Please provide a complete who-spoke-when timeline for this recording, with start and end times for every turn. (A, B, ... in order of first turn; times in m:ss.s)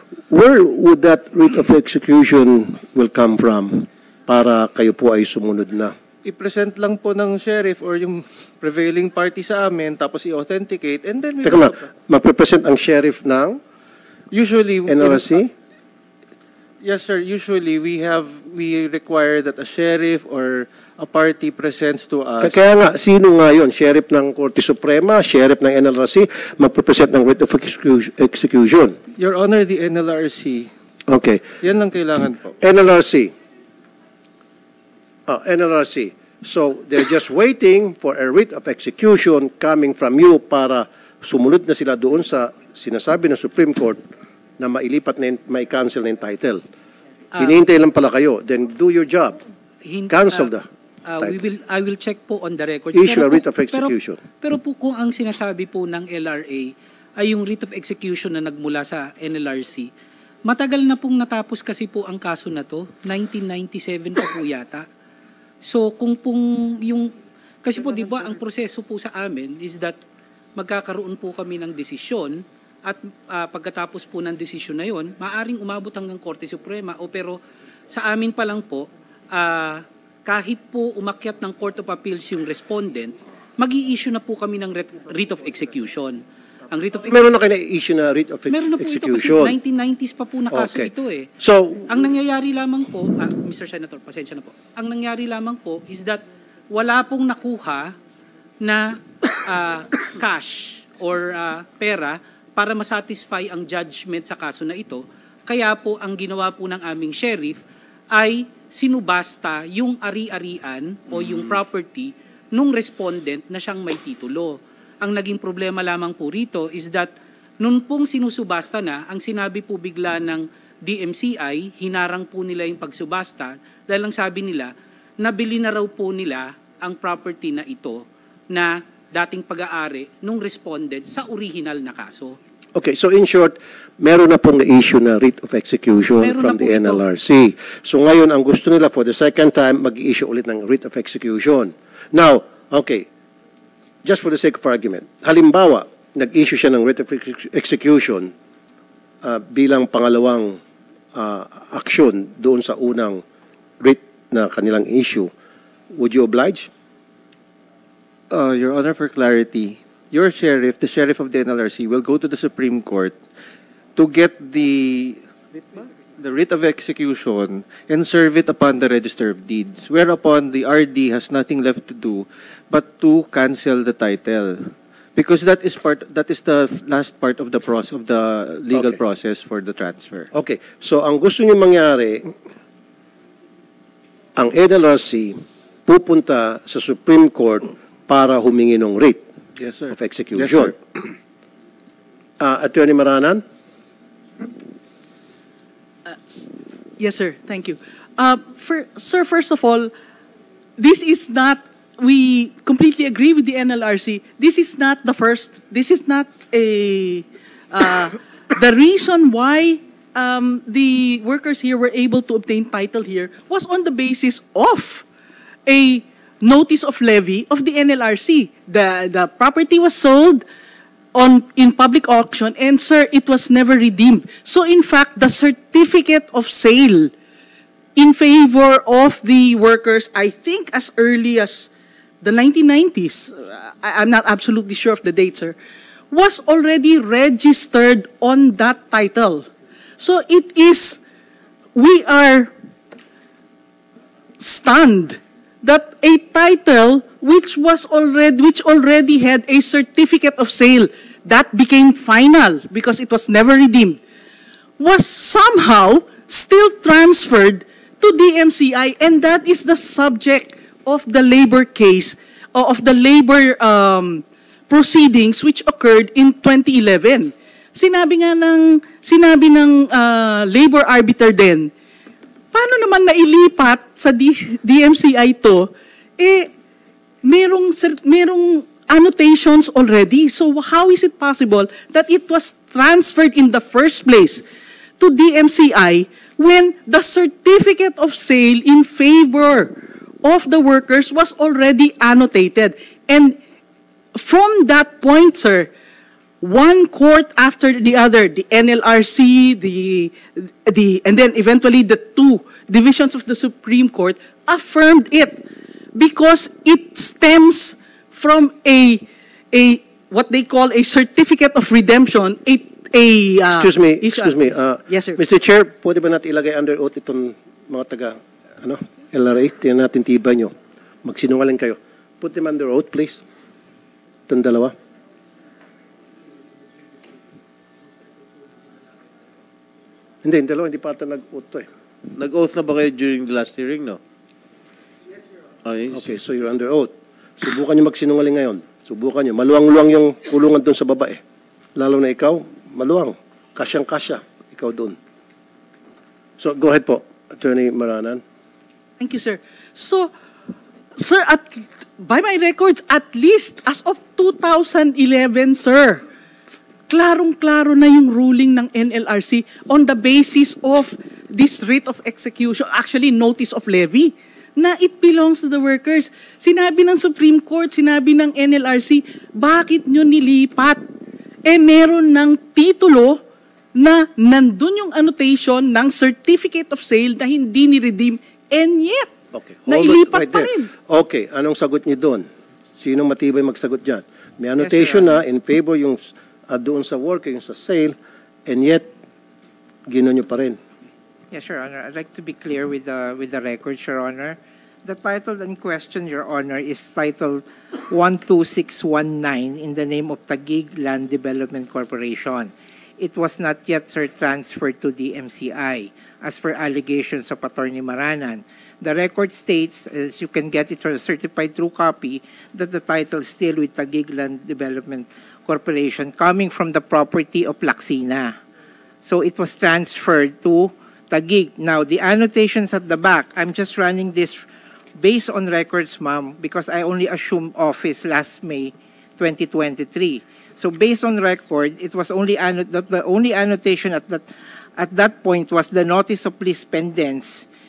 0:00.3-0:05.9 A
0:06.2-0:11.8 B
0:11.4-0:13.6 A
0:14.3-0:15.4 B
0:14.9-0:15.5 A
0:16.8-0:22.6 B
0:22.4-0:29.0 A
0:29.2-0:30.7 B
0:31.1-0:31.5 A
0:31.6-0:32.5 B
0:32.6-0:33.3 A
0:35.3-0:44.0 A
0:44.6-0:46.6 A
0:47.4-0:49.4 A
0:49.8-0:50.5 C
0:50.1-0:50.7 A
0:51.1-0:59.9 C
0:52.9-0:54.2 A
1:00.5-1:04.9 C
1:05.6-1:07.1 C
1:07.6-1:10.0 C
1:10.6-1:17.4 C
1:17.9-1:27.2 C
1:27.0-1:29.6 A
1:28.5-1:31.3 C
1:30.5-1:31.9 A
1:31.9-1:37.9 C
1:38.6-1:47.6 C
1:48.1-2:12.4 C
2:12.8-2:23.1 A
2:16.2-2:17.0 C
2:24.0-2:28.3 A
2:29.2-2:30.6 A
2:31.1-2:33.2 A
2:33.8-2:35.3 A
2:35.9-2:36.7 A
2:38.3-2:43.2 B
2:44.0-3:00.3 B
2:58.7-2:59.0 A
3:00.3-3:02.3 A
3:04.4-3:09.2 A
3:09.6-3:10.8 B
3:09.9-3:10.8 A
3:12.4-3:13.4 A
3:16.1-3:19.9 D
3:20.8-3:35.0 D
3:35.7-3:40.4 D
3:41.1-3:47.1 D
3:48.0-3:51.7 D
3:52.2-3:55.6 D
3:56.1-3:59.5 D
4:00.0-4:01.0 D
4:01.7-4:02.5 D
4:04.4-4:14.0 D
4:14.8-4:31.7 D
4:32.5-4:36.5 D
4:37.2-4:44.4 D
4:45.0-4:53.4 D
4:54.1-4:55.7 D
4:56.4-5:05.4 D
5:05.9-5:15.2 D
5:13.5-5:23.2 A
5:24.3-5:24.7 A
5:30.2-5:31.7 A
5:32.1-5:34.0 E
5:35.6-5:36.1 E
5:35.9-5:41.2 A
5:41.8-5:45.0 A
5:46.4-5:48.2 A
5:49.0-5:50.1 D
5:51.0-5:56.0 D
5:56.9-6:10.8 D
6:11.4-6:13.2 D
6:13.7-6:19.1 D
6:19.3-6:27.9 A
6:19.7-6:20.7 D
6:24.6-6:25.2 F
6:28.4-6:28.9 A
6:29.9-6:30.6 A
6:31.3-6:58.4 F
6:59.0-7:04.4 F
7:05.0-7:17.4 F